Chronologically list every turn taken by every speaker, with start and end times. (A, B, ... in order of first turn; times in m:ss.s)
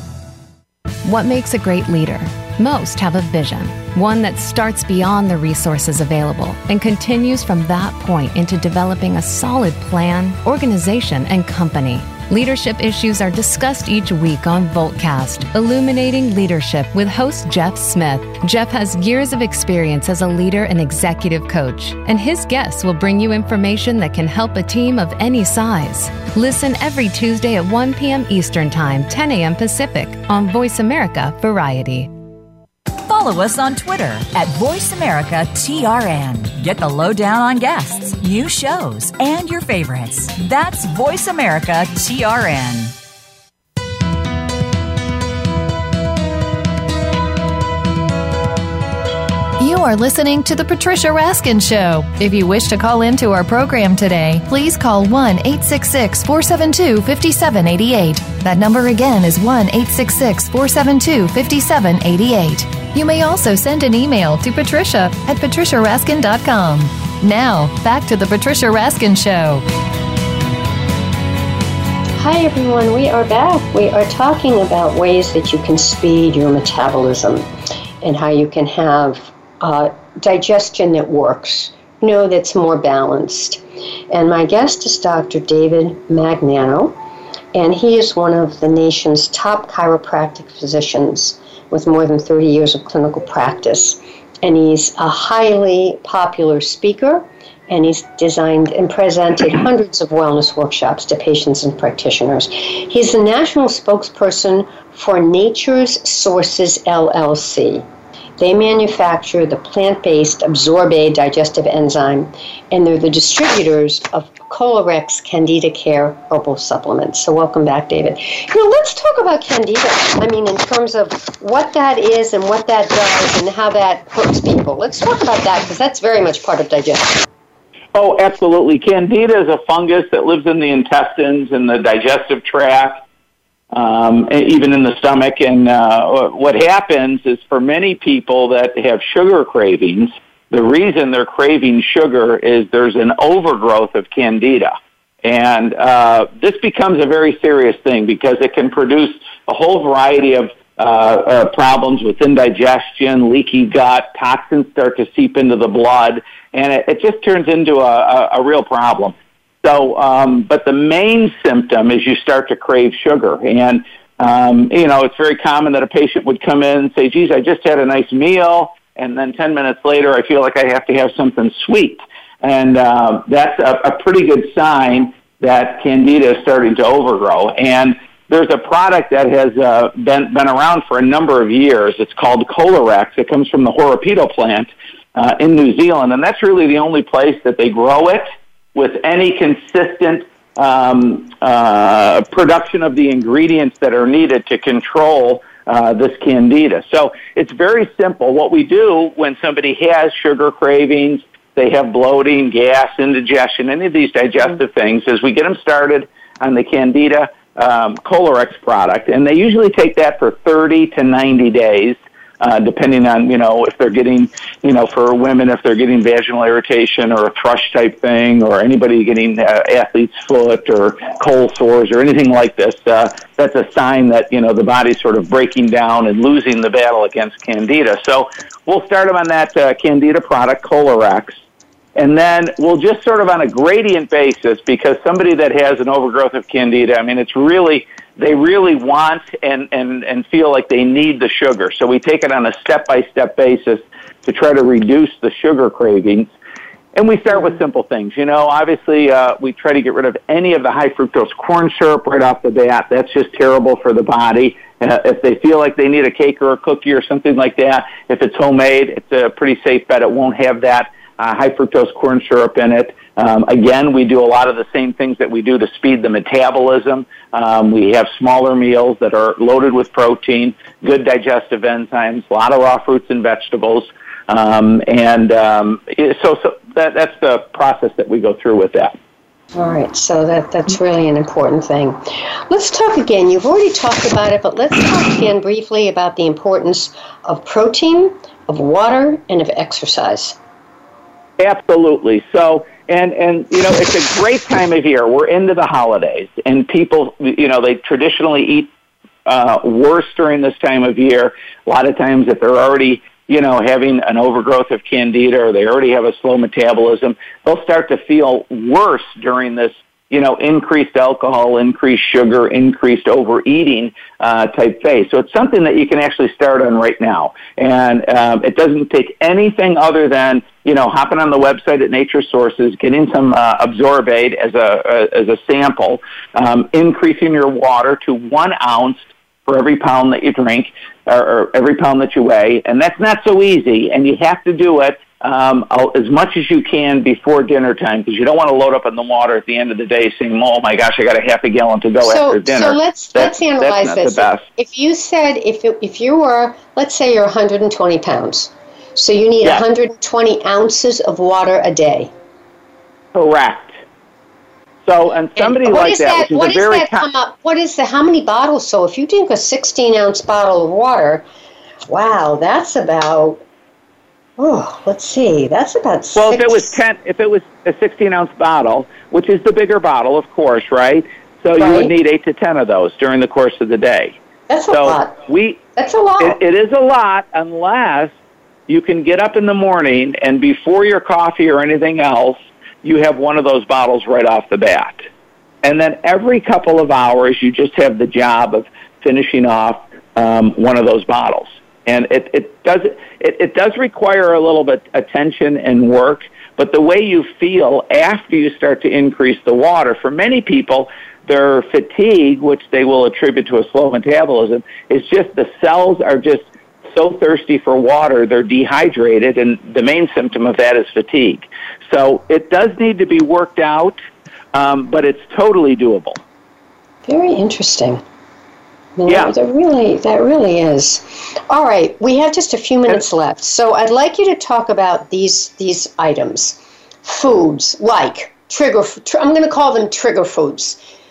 0:01.0-0:32.1 A
0:33.1-0:43.0 B
0:49.6-1:09.6 C
1:12.2-1:17.5 D
1:18.0-1:27.0 D
1:27.5-1:47.8 D
1:48.4-2:07.3 D
2:08.0-2:13.0 E
2:13.7-3:51.4 E
3:52.0-4:06.3 E
4:07.0-4:39.0 E
4:39.5-4:50.4 D
4:51.4-4:58.7 E
4:59.3-5:44.4 E
5:42.0-5:52.1 D
5:53.1-5:53.8 E
5:54.8-5:57.1 E
5:55.4-6:01.2 D
6:01.9-6:03.4 D
6:04.4-6:06.8 D
6:06.2-6:14.2 E
6:11.6-6:11.9 D
6:14.5-6:15.2 D
6:14.7-6:15.6 E
6:15.8-6:16.4 D
6:16.2-6:18.1 E
6:18.7-6:25.0 E
6:25.6-6:54.0 E
6:54.5-6:56.2 E
6:57.1-6:58.0 D
6:59.0-7:10.8 D
6:59.1-6:59.3 E